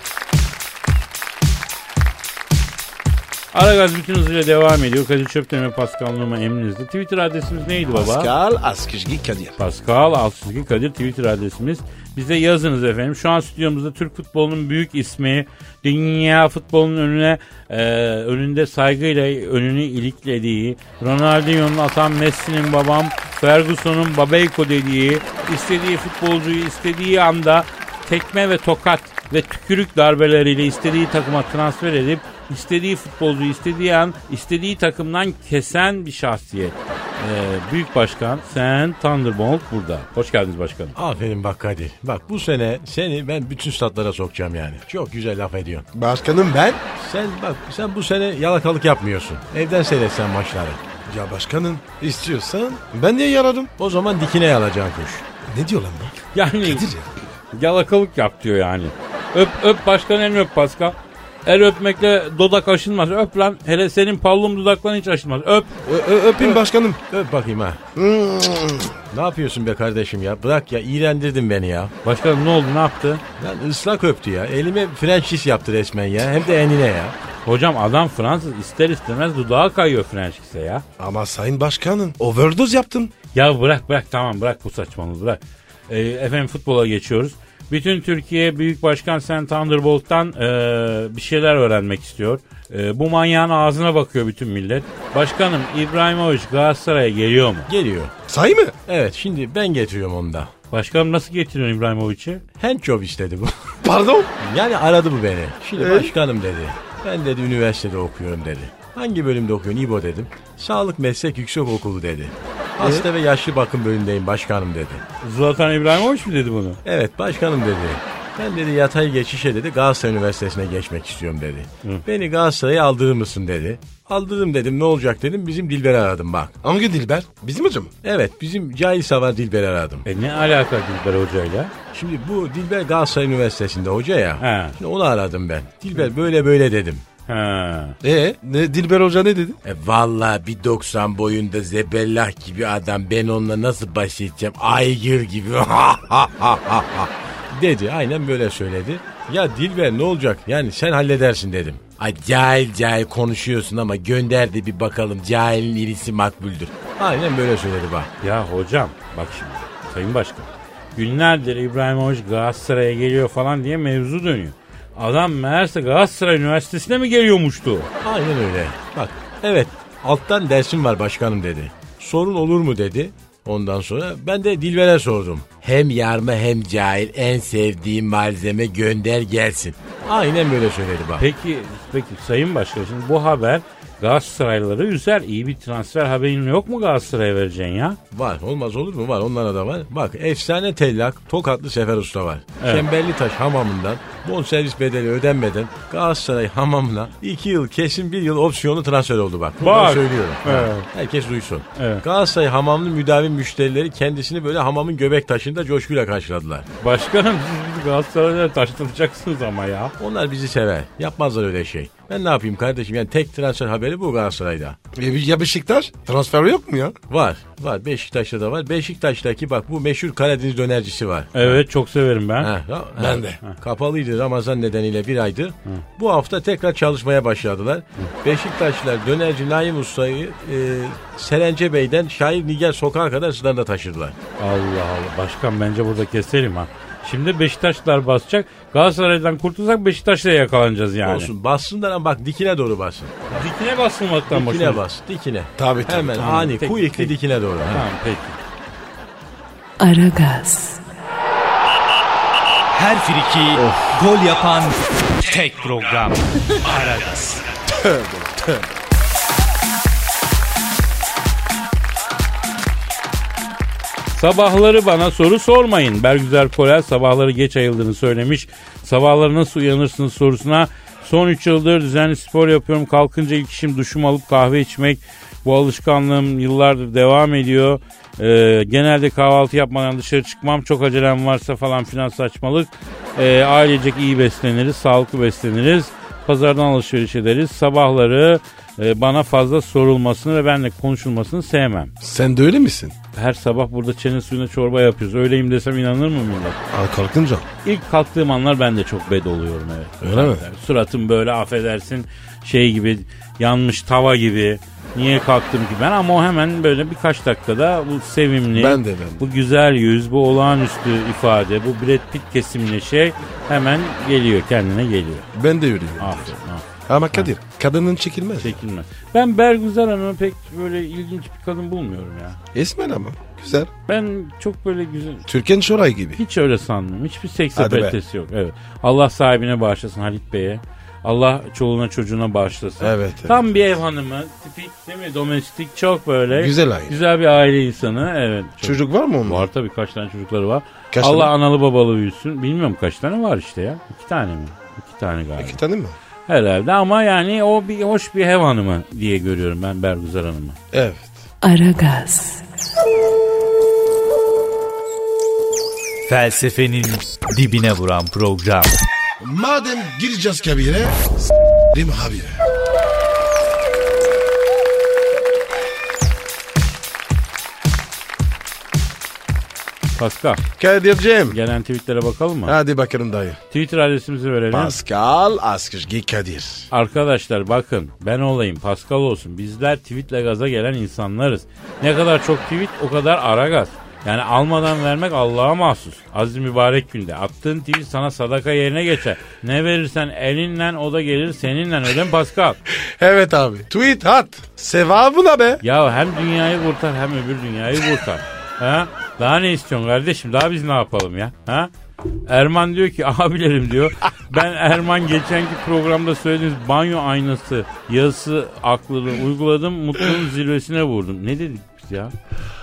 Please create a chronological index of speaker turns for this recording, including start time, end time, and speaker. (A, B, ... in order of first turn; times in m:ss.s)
0:03.5-0:08.3 A
0:07.9-0:09.6 B
0:09.6-0:41.0 A
0:41.0-0:45.9 C
0:45.9-0:46.8 B
0:47.0-0:50.8 C
0:51.1-0:53.7 B
0:53.8-0:55.2 C
0:55.5-0:57.1 B
0:56.3-0:56.9 A
0:57.5-1:05.7 A
1:05.8-1:07.0 B
1:06.4-1:07.8 C
1:08.0-1:09.0 B
1:09.1-1:11.9 C
1:12.0-1:13.2 A
1:13.4-1:17.2 C
1:17.4-1:20.8 A
1:21.0-1:23.1 B
1:23.3-1:37.7 A
1:37.7-1:38.1 C
1:38.3-1:38.8 B
1:38.9-1:40.5 C
1:40.7-1:42.4 A
1:42.6-1:43.6 C
1:43.8-1:44.3 B
1:44.4-1:55.0 C
1:45.8-1:46.1 B
1:52.8-1:53.1 B
1:55.2-1:56.8 A
1:56.8-2:06.5 C
2:06.6-2:07.9 B
2:08.0-2:10.1 C
2:10.1-2:11.7 A
2:11.9-2:17.0 C
2:14.4-2:14.8 A
2:17.3-2:18.0 A
2:18.0-2:19.6 B
2:19.6-2:38.1 C
2:38.2-2:47.9 A
2:48.0-3:01.2 C
3:01.2-3:08.0 A
3:08.1-3:26.7 C
3:12.6-3:12.9 A
3:19.6-3:20.9 A
3:21.8-3:22.0 A
3:26.8-3:29.9 A
3:30.0-3:34.8 C
3:34.9-3:37.0 B
3:37.1-3:41.6 C
3:41.4-3:42.5 A
3:42.4-3:54.2 C
3:43.0-3:43.4 B
3:54.4-4:01.3 A
4:01.0-4:03.5 C
4:03.3-4:04.8 A
4:04.3-4:07.8 C
4:05.6-4:06.3 B
4:06.0-4:07.1 A
4:07.7-4:08.4 A
4:09.8-4:10.8 D
4:12.7-4:17.4 E
4:13.6-4:13.9 B
4:17.8-4:18.6 B
4:24.1-4:51.9 A
4:52.0-4:53.0 B
4:53.1-4:56.6 A
4:56.7-4:57.5 B
4:57.6-5:15.3 A
5:00.0-5:00.4 B
5:08.5-5:09.2 B
5:15.3-5:16.3 B
5:16.0-5:17.3 A
5:16.9-5:18.6 B
5:18.4-5:22.4 A
5:22.5-5:23.7 B
5:23.9-5:25.2 A
5:25.3-5:26.2 B
5:26.2-5:45.6 A
5:27.6-5:28.0 B
5:32.8-5:33.5 B
5:36.3-5:37.0 B
5:38.6-5:39.5 B
5:40.9-5:41.3 B
5:45.4-5:46.0 B
5:46.3-5:50.6 A
5:50.7-5:51.2 B
5:51.4-5:52.4 D
5:56.1-5:58.8 E
5:59.2-6:02.4 B
6:10.0-6:10.4 A
6:10.6-6:11.4 B
6:11.3-6:12.6 A
6:12.5-6:13.4 B
6:13.5-6:14.8 A
6:14.5-6:16.7 B
6:16.7-6:32.6 A
6:32.7-6:35.6 B
6:35.6-6:41.7 A
6:42.3-6:52.1 A